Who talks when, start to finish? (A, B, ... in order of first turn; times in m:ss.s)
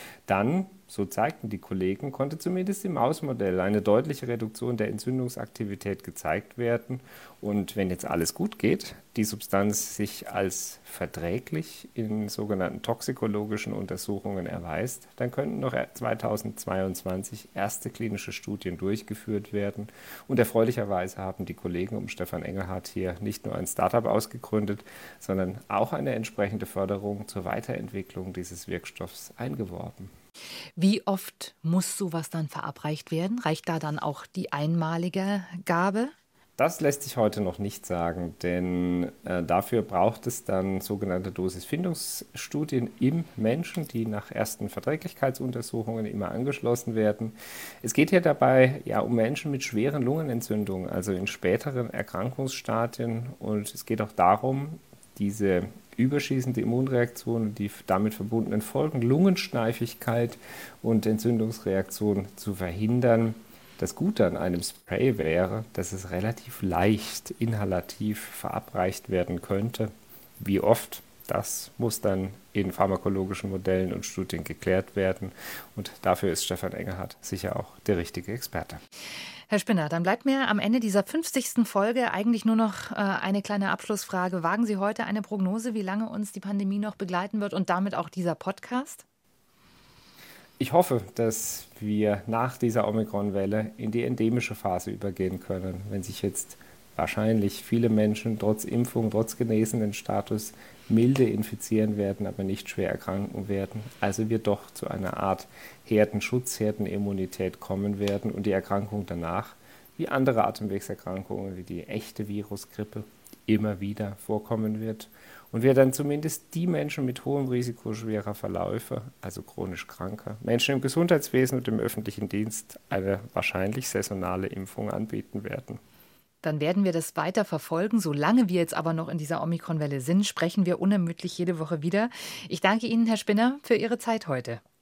0:00.3-0:30.1 A
0:30.8-0:36.1 B
0:36.6-1:18.8 A
1:19.5-1:29.0 B
1:30.6-2:05.8 A
2:06.4-2:14.6 B